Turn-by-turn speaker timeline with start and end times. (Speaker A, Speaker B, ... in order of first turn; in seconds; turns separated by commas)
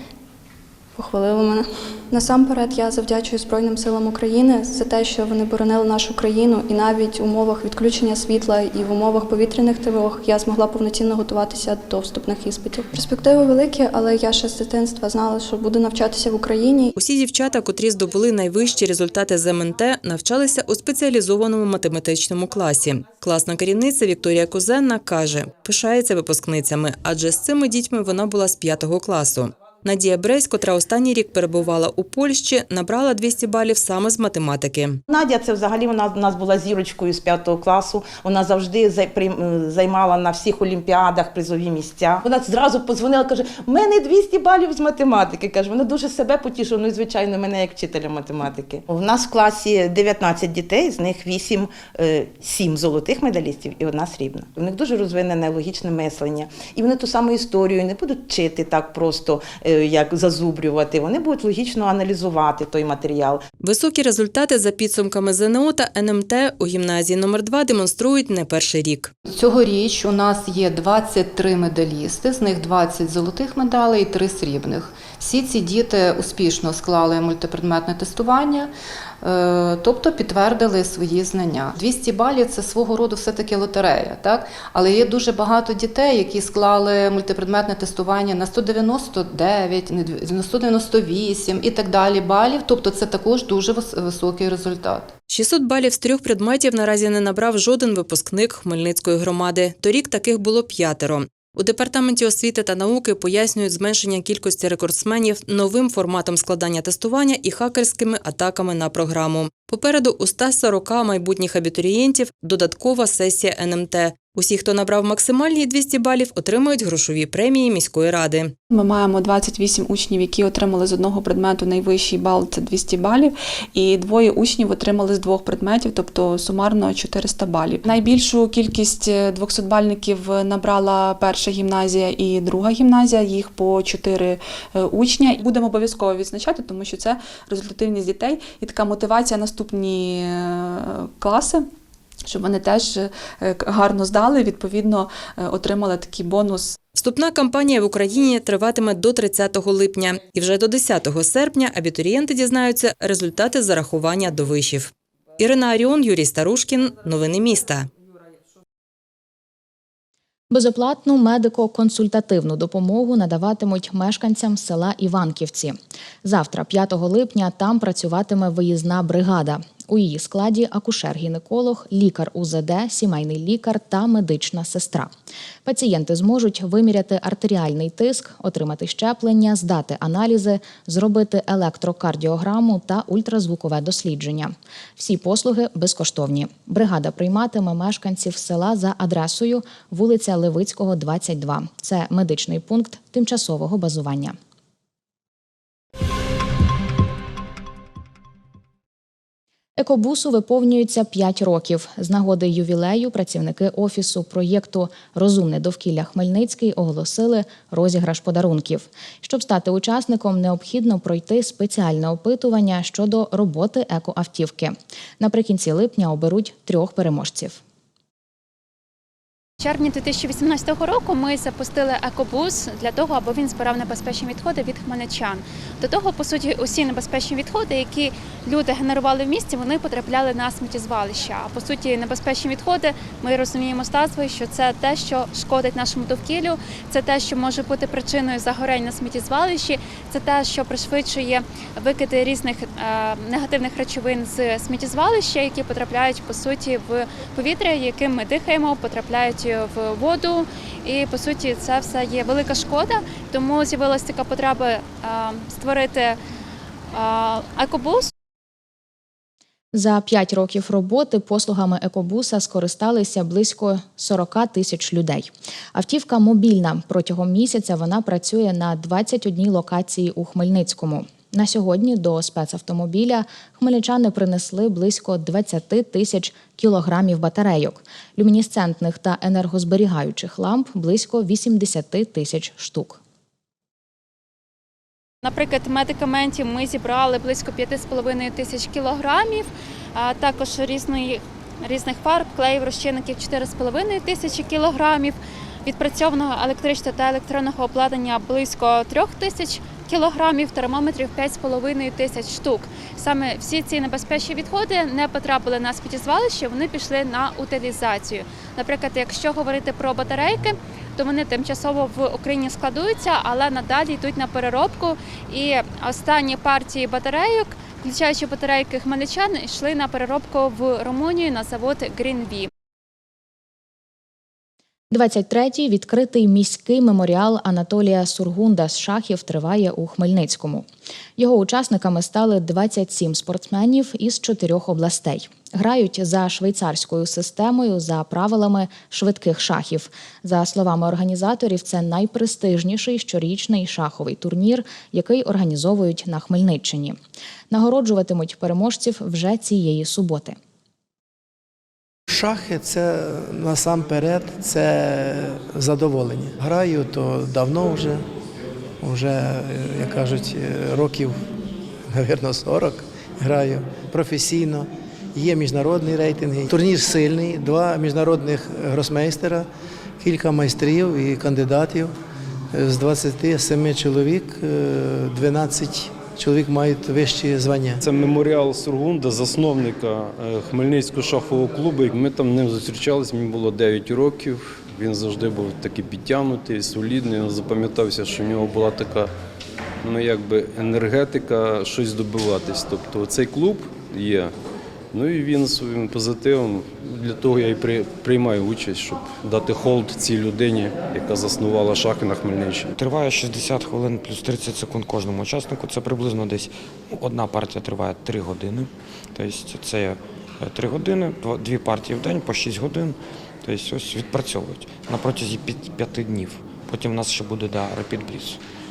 Speaker A: 1.0-16.9, Speaker B: 17.0-35.0, Speaker C: 35.1-63.4, Speaker B: 63.6-69.1, Speaker D: 69.2-95.1, Speaker B: 95.3-118.5, Speaker E: 118.7-141.7, Speaker E: 142.3-146.8, Speaker B: 146.9-157.9, Speaker F: 160.5-175.1, Speaker F: 175.7-194.4, Speaker F: 199.8-217.6, Speaker G: 219.6-256.2, Speaker G: 256.9-258.1, Speaker F: 259.7-283.0, Speaker G: 285.2-322.5, Speaker F: 324.9-330.7, Speaker F: 331.2-347.0, Speaker F: 347.5-350.4, Speaker H: 352.1-358.0, Speaker H: 358.8-361.2, Speaker H: 361.9-369.5, Speaker H: 370.0-371.9, Speaker H: 372.5-377.8, Speaker I: 377.8-389.1, Speaker I: 389.8-394.3, Speaker I: 394.9-402.7, Speaker J: 402.8-418.4